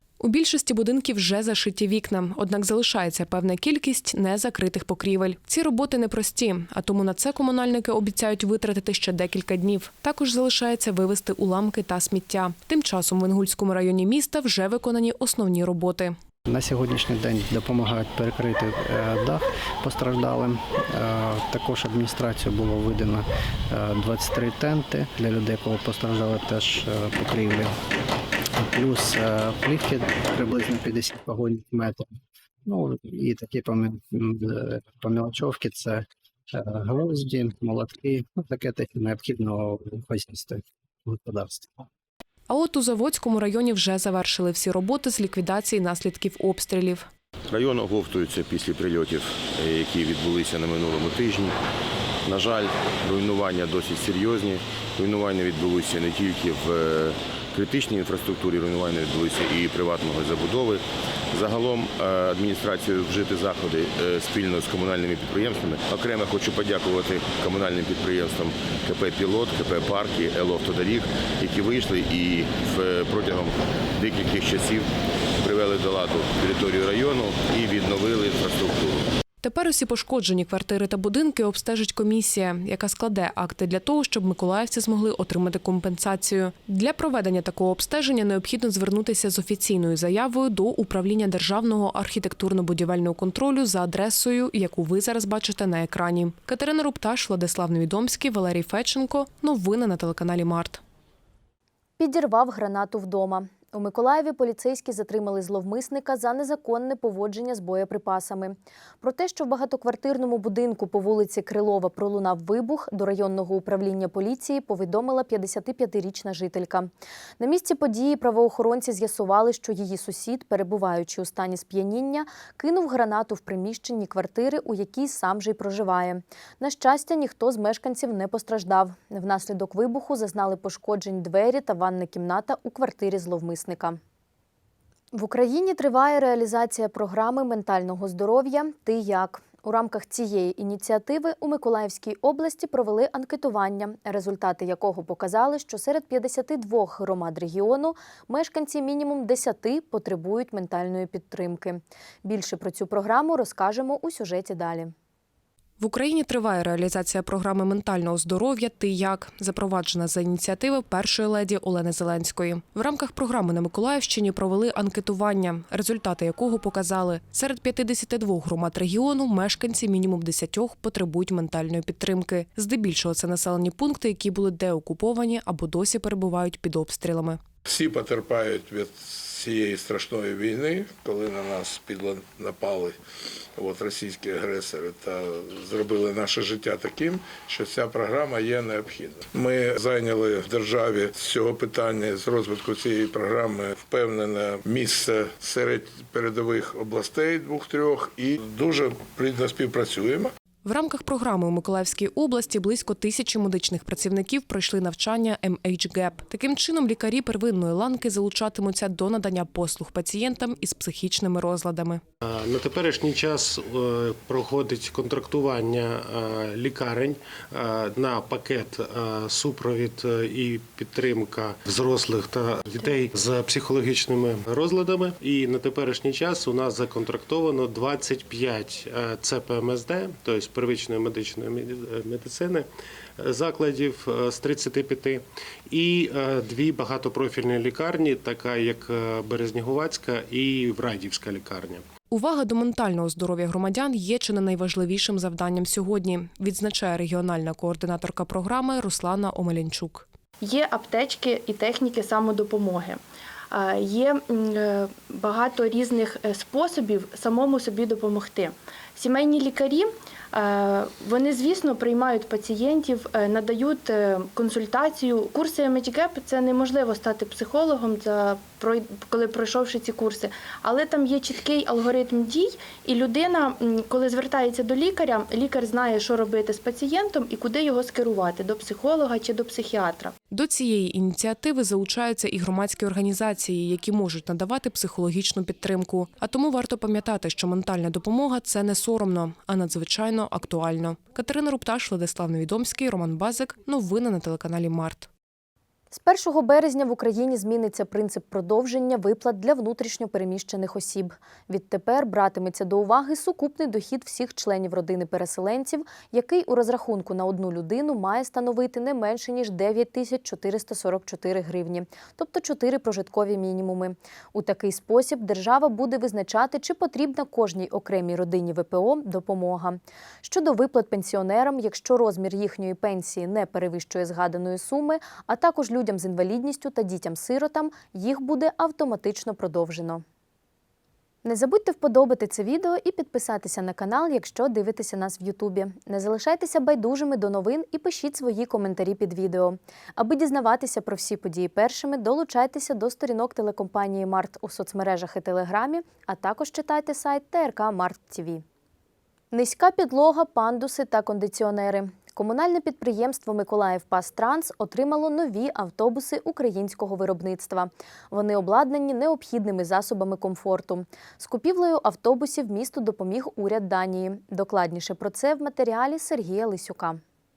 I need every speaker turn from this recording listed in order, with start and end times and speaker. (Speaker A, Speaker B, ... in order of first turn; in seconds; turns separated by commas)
Speaker A: 0.2-16.2, Speaker B: 16.5-27.7, Speaker B: 28.6-32.1, Speaker B: 32.7-41.7, Speaker A: 42.5-47.1, Speaker C: 47.5-51.5, Speaker C: 52.3-74.9, Speaker C: 75.4-79.1, Speaker A: 79.4-100.8, Speaker D: 102.0-116.9, Speaker D: 117.4-134.0, Speaker D: 135.1-154.9, Speaker A: 155.8-177.4, Speaker E: 177.7-183.0, Speaker E: 183.6-200.3, Speaker A: 200.6-212.0, Speaker F: 212.2-232.7, Speaker F: 233.2-241.8, Speaker A: 242.1-250.1, Speaker G: 250.4-253.0, Speaker G: 253.5-280.1, Speaker A: 280.3-295.1, Speaker D: 295.9-330.0, Speaker D: 331.2-348.4, Speaker D: 349.3-367.0